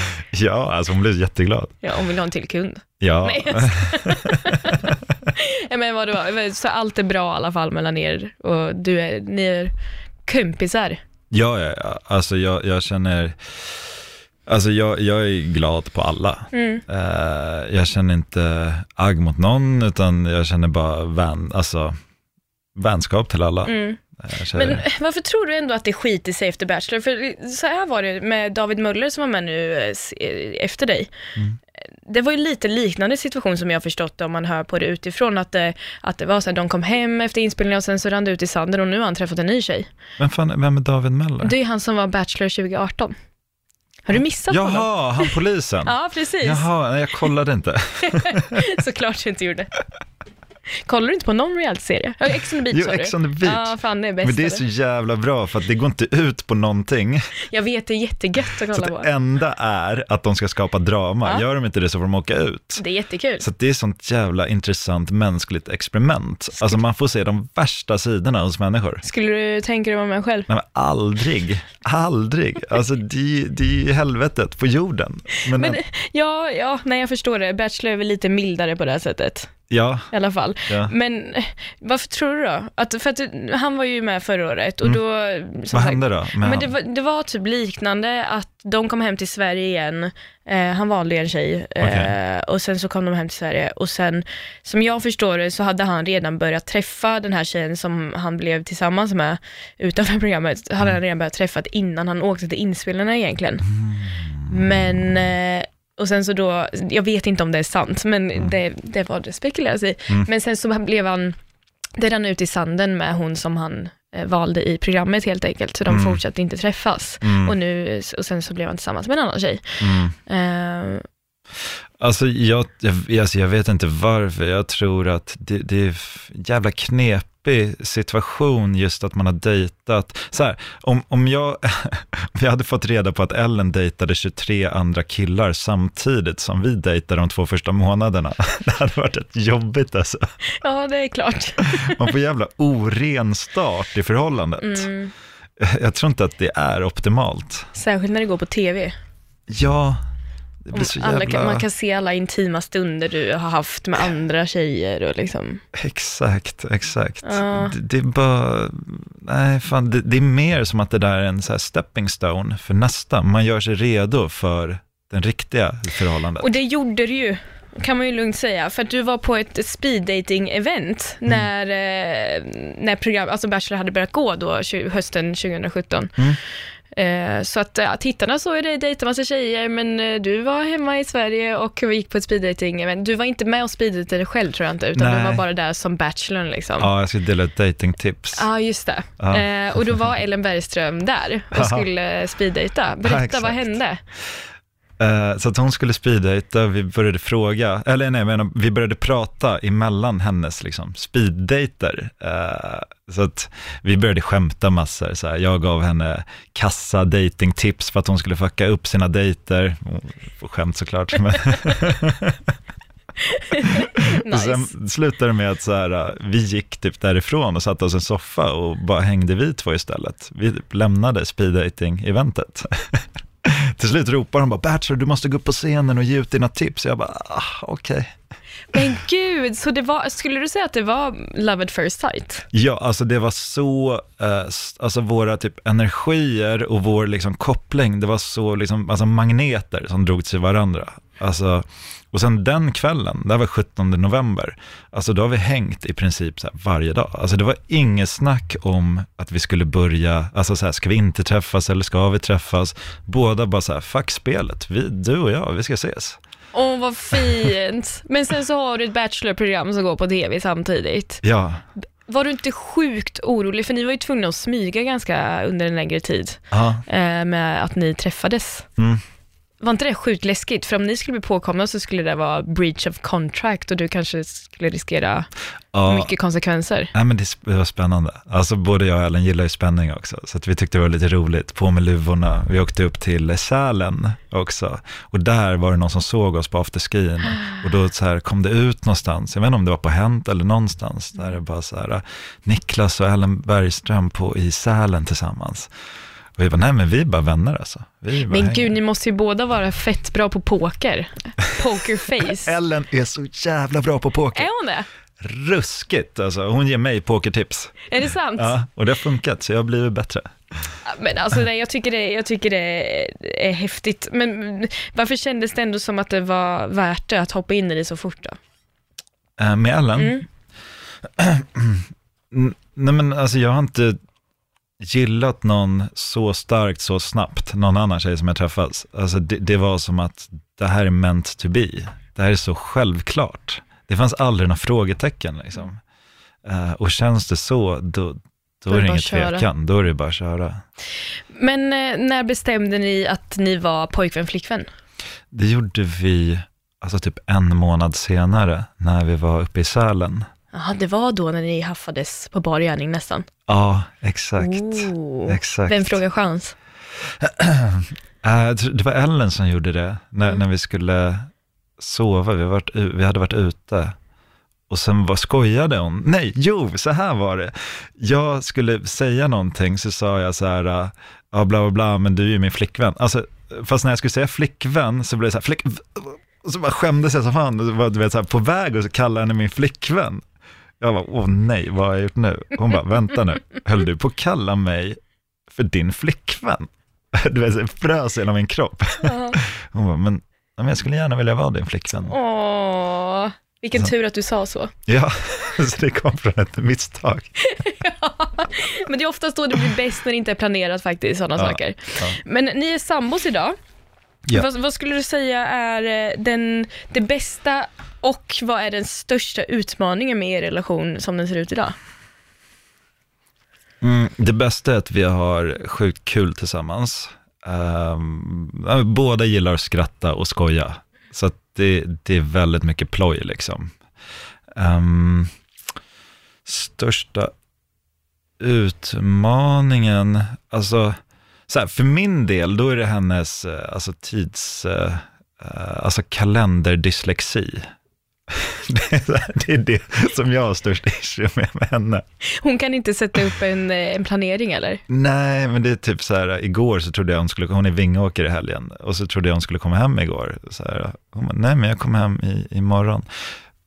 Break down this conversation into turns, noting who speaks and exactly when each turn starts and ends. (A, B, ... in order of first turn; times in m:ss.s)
0:00.1-0:01.8 A
0:01.8-0:09.7 B
0:03.0-0:05.1 A
0:10.2-0:11.0 B
0:11.3-0:13.9 A
0:14.5-0:22.0 A
0:16.5-0:16.8 B
0:22.7-0:24.8 A
0:23.6-0:24.0 B
0:24.5-0:31.1 B
0:32.0-0:39.9 B
0:40.2-0:41.5 A
0:41.4-0:43.1 B
0:44.0-0:46.7 B
0:44.5-0:48.6 A
0:48.0-0:49.7 B
0:50.8-0:54.6 B
0:52.7-0:57.2 A
0:57.5-0:59.1 B
0:58.7-1:02.8 A
1:02.8-1:03.5 B
1:03.4-1:09.0 A
1:09.0-1:10.5 B
1:10.5-1:15.8 A
1:15.5-1:19.5 B
1:19.7-1:20.1 A
1:20.1-1:43.7 B
1:20.7-1:20.9 A
1:25.7-1:26.7 A
1:31.8-1:32.1 A
1:43.7-1:45.3 A
1:44.5-1:51.4 B
1:52.0-2:01.0 B
1:55.9-1:56.2 A
1:57.2-1:57.5 A
1:59.8-2:00.1 A
2:01.7-2:20.2 A
2:20.6-2:22.0 B
2:21.7-2:24.9 A
2:24.6-2:25.1 B
2:25.6-2:27.7 A
2:27.7-2:28.9 B
2:29.5-2:30.0 A
2:30.6-2:31.6 A
2:30.7-2:35.6 B
2:35.7-2:46.5 A
2:37.2-2:37.7 B
2:46.4-2:56.1 B
2:56.9-3:06.9 B
3:04.9-3:05.4 A
3:06.8-3:08.4 A
3:08.3-3:14.0 B
3:09.2-3:10.0 A
3:11.5-3:11.9 A
3:13.0-3:13.8 A
3:15.0-3:32.5 A
3:33.2-3:34.7 B
3:33.6-3:48.2 A
3:48.7-3:52.5 B
3:52.5-4:16.2 A
4:16.5-4:21.2 B
4:21.2-4:21.6 A
4:22.0-4:28.7 B
4:26.5-4:26.8 A
4:29.6-4:35.3 B
4:35.7-4:36.1 A
4:35.8-4:36.9 B
4:36.9-4:55.7 A
4:56.4-4:58.7 A
4:58.3-5:02.5 B
5:02.2-5:04.5 A
5:04.3-5:04.9 B
5:05.2-5:10.7 A
5:07.9-5:08.5 B
5:10.8-5:18.4 B
5:19.4-5:20.2 A
5:19.9-5:20.2 B
5:21.2-5:24.0 A
5:24.8-5:35.8 A
5:36.4-5:40.6 A
5:38.7-5:39.5 B
5:41.3-5:44.7 B
5:45.3-5:50.3 A
5:50.5-5:53.3 B
5:53.5-5:56.0 A
5:54.4-5:56.5 B
5:57.0-6:03.9 A
6:04.7-6:20.2 A
6:20.8-6:32.1 A
6:29.0-6:29.4 B
6:32.0-6:34.7 B
6:34.8-6:37.3 A
6:37.4-6:43.5 B
6:41.4-6:42.2 A
6:44.3-6:51.7 B
6:53.8-7:03.8 A
7:04.5-7:05.3 A
7:06.4-7:07.3 A
7:08.4-7:17.7 A
7:18.3-7:22.0 A
7:22.2-7:24.8 B
7:24.9-7:33.4 A